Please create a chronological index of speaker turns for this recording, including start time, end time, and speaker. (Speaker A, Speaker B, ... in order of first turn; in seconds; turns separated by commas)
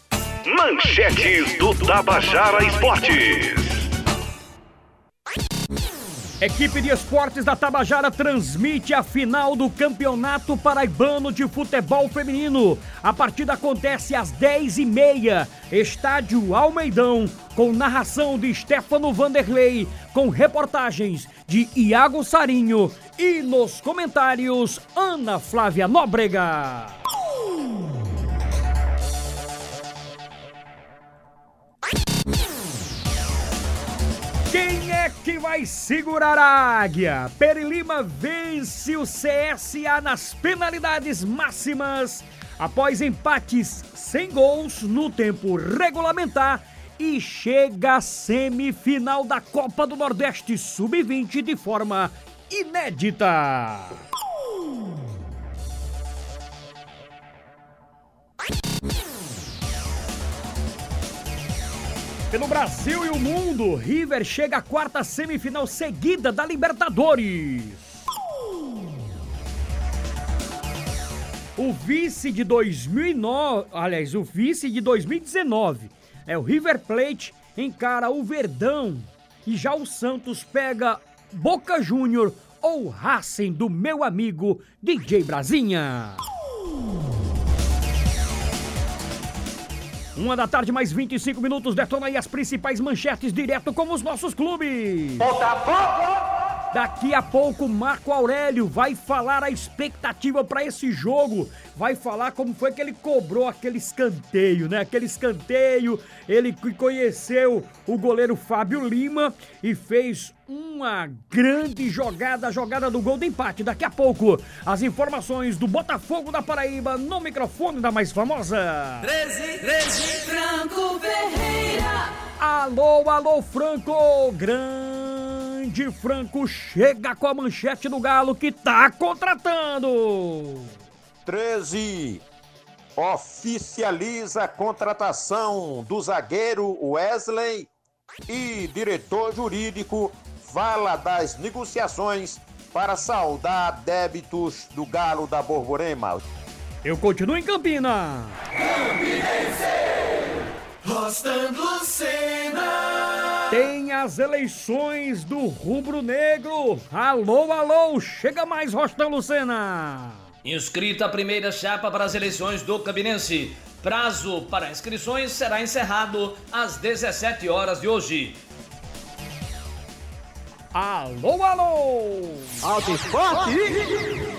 Speaker A: 0.4-3.9, Speaker B: 6.4-27.0, Speaker B: 34.5-54.0, Speaker B: 62.3-68.0, Speaker B: 71.6-86.2, Speaker B: 90.1-95.3, Speaker C: 95.2-96.1, Speaker B: 96.7-119.2, Speaker D: 119.3-122.1, Speaker B: 122.4-130.7, Speaker C: 131.2-132.2, Speaker C: 132.9-137.7, Speaker C: 138.3-146.2, Speaker B: 146.8-148.4, Speaker D: 150.9-152.8, Speaker B: 153.5-160.2, Speaker E: 160.4-168.4, Speaker B: 170.7-172.6